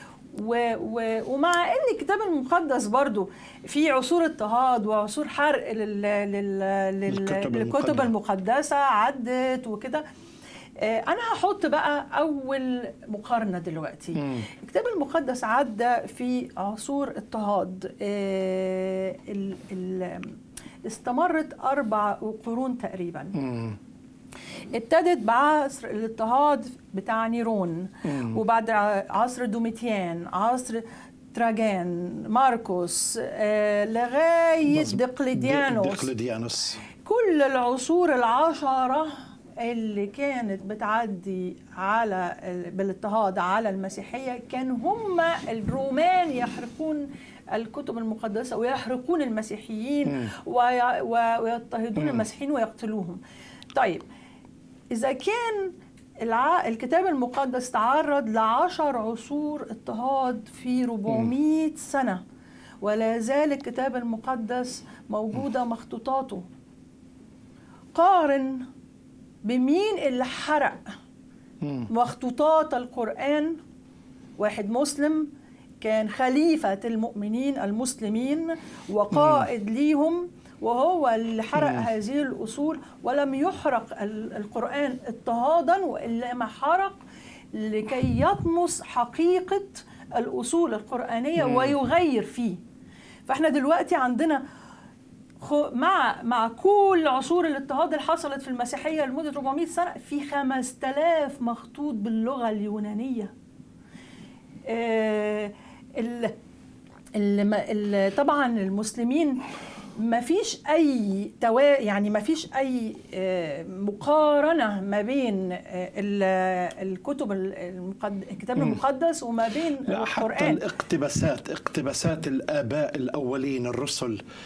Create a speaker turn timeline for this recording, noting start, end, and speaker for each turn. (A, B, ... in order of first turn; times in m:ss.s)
0:00.3-0:10.0 A
0:07.1-0:08.1 B
0:10.8-0:23.4 A
0:23.4-0:23.8 B
0:24.7-0:30.8 A
0:28.1-0:28.4 B
0:31.3-0:36.1 A
0:34.7-0:36.8 B
0:37.0-0:53.2 A
0:53.8-0:54.0 A
0:54.9-0:55.7 A
0:56.2-1:02.2 A
1:02.8-1:06.4 A
1:07.9-1:08.6 A
1:09.4-1:10.9 A
1:11.9-1:13.6 A
1:14.4-1:15.3 A
1:15.8-1:27.0 A
1:19.1-1:19.4 B
1:21.6-1:21.8 B
1:27.5-1:32.6 A
1:31.4-1:31.7 B
1:33.3-1:34.4 A
1:35.4-1:43.3 A
1:44.7-1:46.3 A
1:47.2-1:49.4 A
1:50.0-2:00.6 A
1:59.9-2:04.2 B